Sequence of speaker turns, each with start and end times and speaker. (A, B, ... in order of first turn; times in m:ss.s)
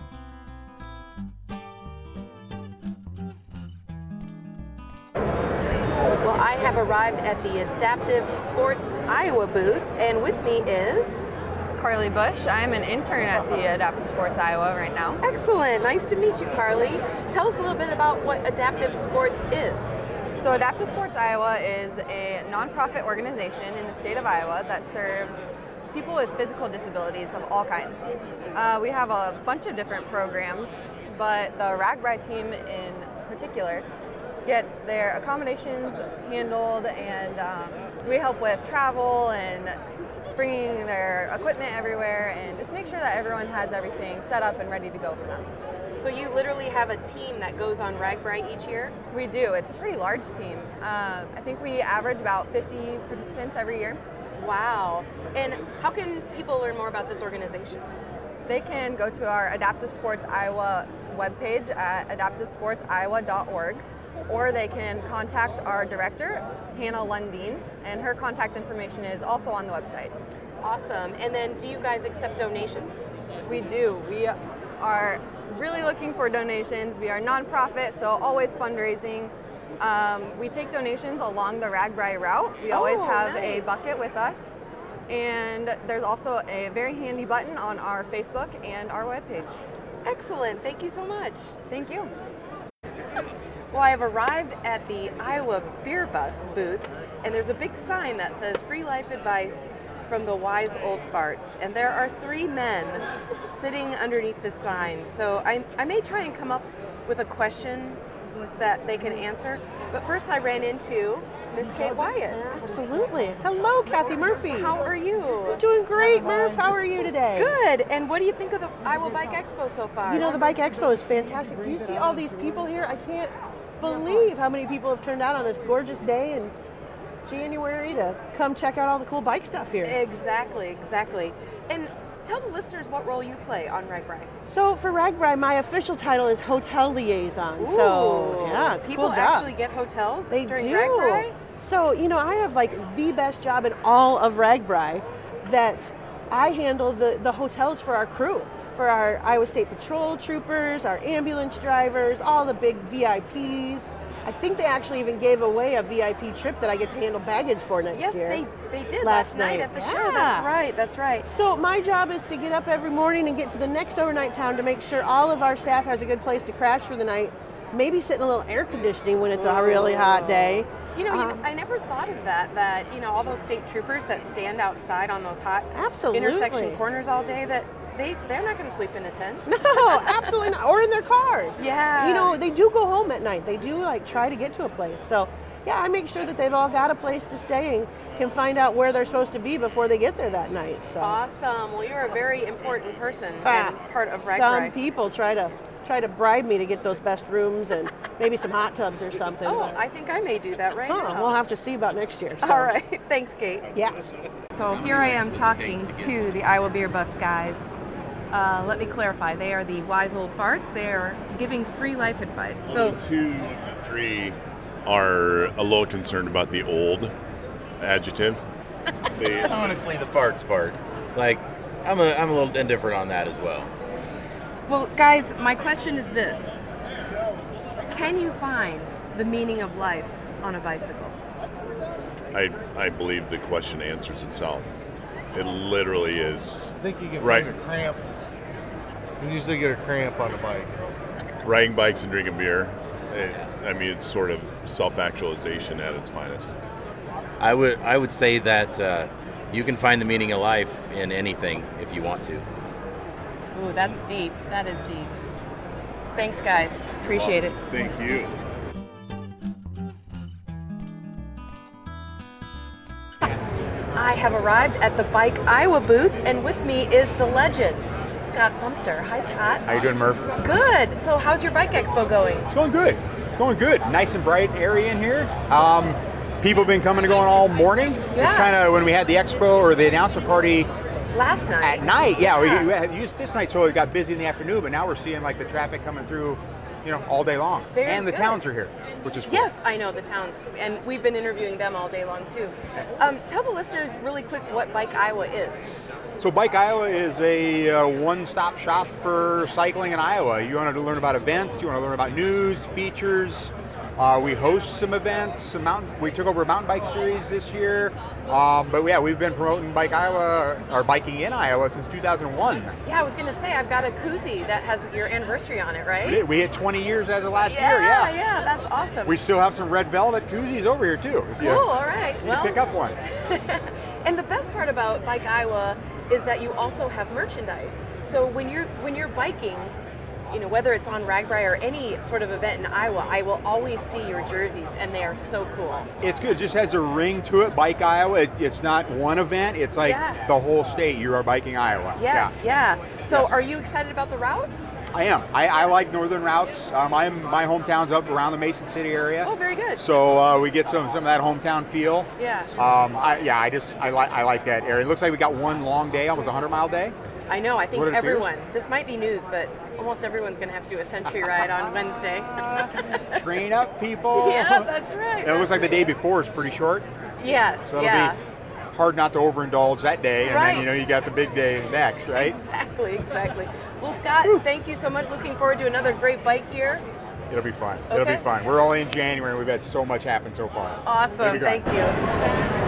0:06.2-0:11.2 A
0:11.8-0:15.2 B
0:15.2-0:20.0 A
0:20.3-0:33.8 B
0:34.4-0:39.8 B
0:40.4-0:45.5 B
0:46.0-0:49.0 A
0:49.1-0:54.0 B
0:54.4-0:57.8 A
0:58.5-1:10.1 B
1:10.6-1:13.1 A
1:13.4-1:29.6 B
1:22.7-1:23.8 A
1:30.0-1:31.5 A
1:31.7-1:32.1 B
1:33.7-1:48.0 A
1:48.6-1:52.6 A
1:52.6-1:54.8 C
1:54.6-1:55.6 A
1:55.5-1:57.6 C
1:57.3-2:00.4 A
2:00.1-2:06.5 C
2:07.2-2:10.0 C
2:09.8-2:14.3 A
2:14.5-2:19.5 C
2:17.6-2:21.4 A
2:20.3-2:38.4 C
2:37.9-2:41.2 A
2:39.0-2:40.5 C
2:41.3-2:51.4 C
2:49.4-3:00.4 A
2:55.7-2:56.8 C
2:59.5-3:11.2 C
3:01.6-3:02.4 A
3:11.0-3:14.7 A
3:13.4-3:13.8 C
3:14.3-3:19.8 C
3:19.4-3:21.4 A
3:20.9-3:22.7 C
3:22.4-3:23.6 A
3:24.5-3:27.8 A
3:24.7-3:26.5 D
3:28.3-3:33.0 A
3:32.7-3:37.1 E
3:37.8-3:38.4 E
3:39.2-3:39.9 E
3:39.3-3:43.7 D
3:44.7-3:46.6 A
3:47.9-3:51.2 A
3:52.3-3:54.7 E
3:55.3-3:57.5 E
3:56.8-3:58.0 F
3:59.2-4:00.8 F
4:01.4-4:06.6 E
4:07.4-4:12.4 D
4:13.6-4:15.1 A
4:16.2-4:17.6 A
4:17.7-4:18.3 E
4:23.9-4:29.6 A
4:29.7-4:30.3 G
4:30.4-4:32.5 A
4:32.5-4:40.7 G
4:38.2-4:38.6 A
4:41.1-4:42.7 A
4:41.6-4:49.6 G
4:47.7-4:48.4 A
4:49.2-4:55.7 A
4:56.2-5:12.8 G
5:12.8-5:16.2 A
5:16.0-5:18.1 G
5:17.4-5:19.2 A
5:19.0-5:21.6 G
5:21.4-5:22.6 A
5:22.2-5:23.0 G
5:23.2-5:29.7 A
5:30.3-5:35.9 A
5:36.0-5:42.4 G
5:39.8-5:40.2 A
5:42.0-5:44.5 A
5:43.1-5:43.4 G
5:44.9-5:56.9 G
5:49.2-5:49.8 A
5:52.2-5:52.5 A
5:57.3-6:02.3 A
5:57.7-5:58.3 G
6:02.2-6:04.7 G
6:04.2-6:05.7 A
6:05.2-6:06.9 G
6:07.2-6:08.2 A
6:07.7-6:08.1 G
6:08.7-6:12.4 G
6:10.2-6:10.7 A
6:12.2-6:16.8 A
6:17.3-6:21.6 G
6:17.9-6:18.2 A
6:20.8-6:22.0 A